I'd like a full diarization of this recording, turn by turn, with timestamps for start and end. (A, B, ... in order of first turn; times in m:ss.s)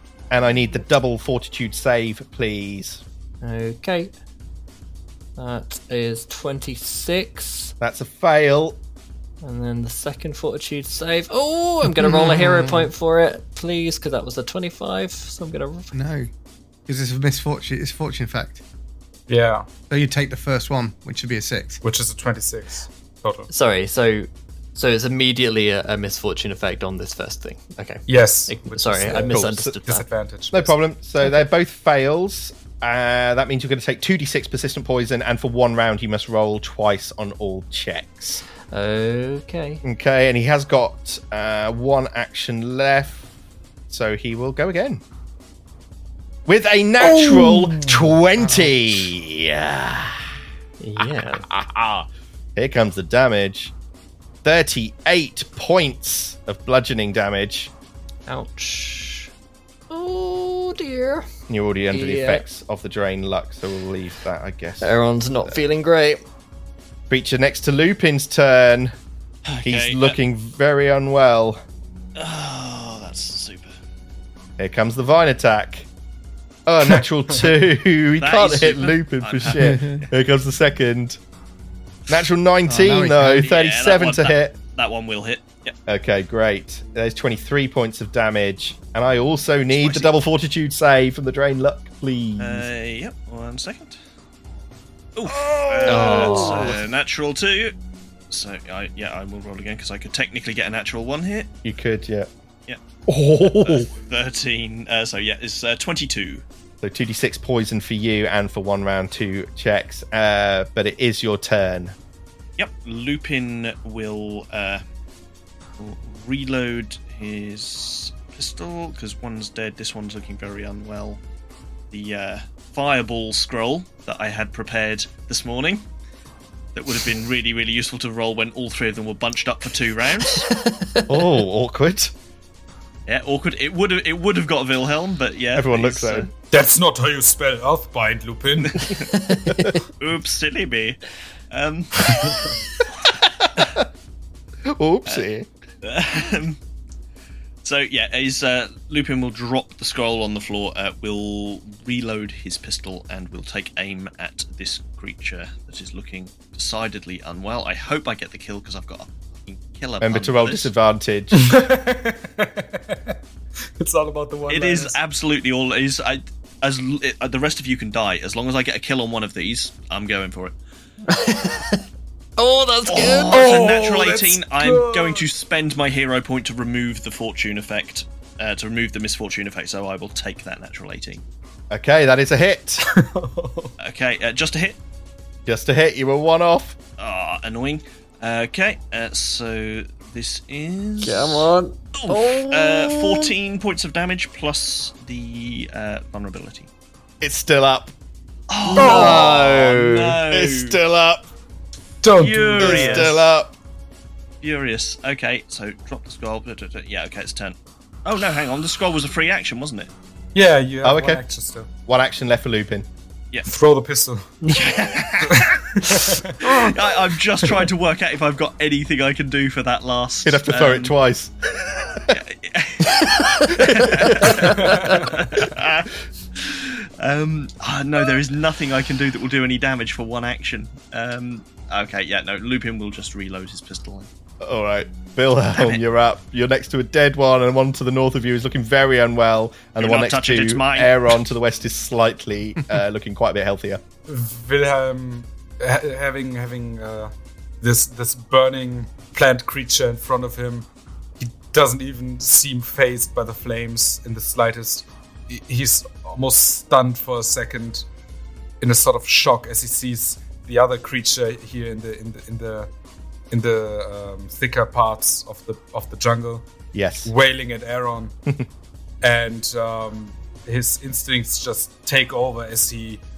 0:00.3-0:03.0 A
0:03.4-0:04.1 B
0:05.4-0:07.7 B
0:07.8-0:08.8 A
0:09.4-0:15.9 B
0:11.8-0:12.9 C
0:15.9-0:16.3 C
0:16.9-0:18.6 C
0:19.3-0:19.7 D
0:19.9-0:21.8 C
0:21.8-0:23.5 D
0:23.5-0:30.0 B
0:28.1-0:30.7 D
0:29.3-0:29.8 A
0:30.5-0:38.4 A
0:38.7-0:39.8 B
0:39.8-0:43.2 A
0:43.9-0:45.0 A
0:46.5-0:50.3 A
0:47.1-0:48.1 D
0:48.4-0:49.1 C
0:50.8-0:51.4 B
0:51.0-0:53.7 A
0:54.4-0:57.7 A
0:58.3-0:59.3 B
0:59.9-1:01.3 B
1:01.5-1:04.9 A
1:01.9-1:02.4 B
1:04.8-1:06.2 B
1:07.1-1:08.9 A
1:09.4-1:10.2 E
1:09.6-1:11.6 A
1:12.2-1:13.7 E
1:14.6-1:15.9 A
1:16.6-1:21.2 A
1:18.2-1:20.0 E
1:19.6-1:20.0 C
1:22.1-1:24.6 A
1:22.7-1:23.5 C
1:23.0-1:25.7 E
1:25.9-1:32.7 A
1:29.7-1:30.1 E
1:32.4-1:34.0 E
1:35.2-1:37.7 E
1:35.2-1:36.8 A
1:35.8-1:36.7 B
1:38.3-1:41.5 E
1:41.6-1:42.3 A
1:43.1-1:43.9 A
1:43.4-1:46.4 E
1:46.8-1:51.9 A
1:52.6-1:54.8 E
1:55.8-2:01.2 E
2:01.9-2:05.8 E
2:06.7-2:10.5 E
2:10.4-2:11.3 B
2:11.1-2:12.1 A
2:13.0-2:16.3 E
2:15.6-2:16.3 A
2:16.5-2:18.9 D
2:19.1-2:19.8 B
2:20.0-2:22.6 E
2:22.1-2:22.5 D
2:23.4-2:23.8 A
2:24.6-2:25.5 A
2:25.8-2:26.6 E
2:27.6-2:40.7 E
2:40.0-2:41.5 A
2:41.3-2:43.2 D
2:43.8-2:45.0 D
2:44.5-2:50.5 E
2:51.1-2:51.8 B
2:52.4-2:53.5 B
2:52.8-3:01.2 E
2:53.3-2:55.2 D
3:01.7-3:02.8 A
3:02.8-3:03.7 D
3:03.8-3:04.8 E
3:05.5-3:06.8 A
3:07.0-3:16.7 E
3:11.0-3:13.3 B
3:17.2-3:17.9 A
3:18.5-3:20.8 E
3:18.7-3:19.5 B
3:18.7-3:21.2 A
3:18.8-3:19.2 D
3:22.0-3:23.1 D
3:22.2-3:23.2 E
3:22.6-3:23.5 A
3:24.4-3:29.9 E
3:30.3-3:31.7 D
3:30.8-3:31.2 A
3:31.9-3:32.9 A
3:33.5-3:34.2 D
3:34.5-3:35.6 E
3:35.2-3:36.7 D
3:36.4-3:40.9 E
3:40.2-3:42.2 A
3:42.1-3:54.1 E
3:43.5-3:44.5 A
3:44.3-3:45.3 D
3:54.4-4:03.8 A
3:55.5-3:55.8 E
3:59.8-4:01.2 E
4:04.1-4:10.7 D
4:11.2-4:17.8 D
4:18.6-4:22.7 D
4:23.3-4:26.4 D
4:26.7-4:27.1 A
4:27.0-4:28.1 D
4:29.0-4:33.0 D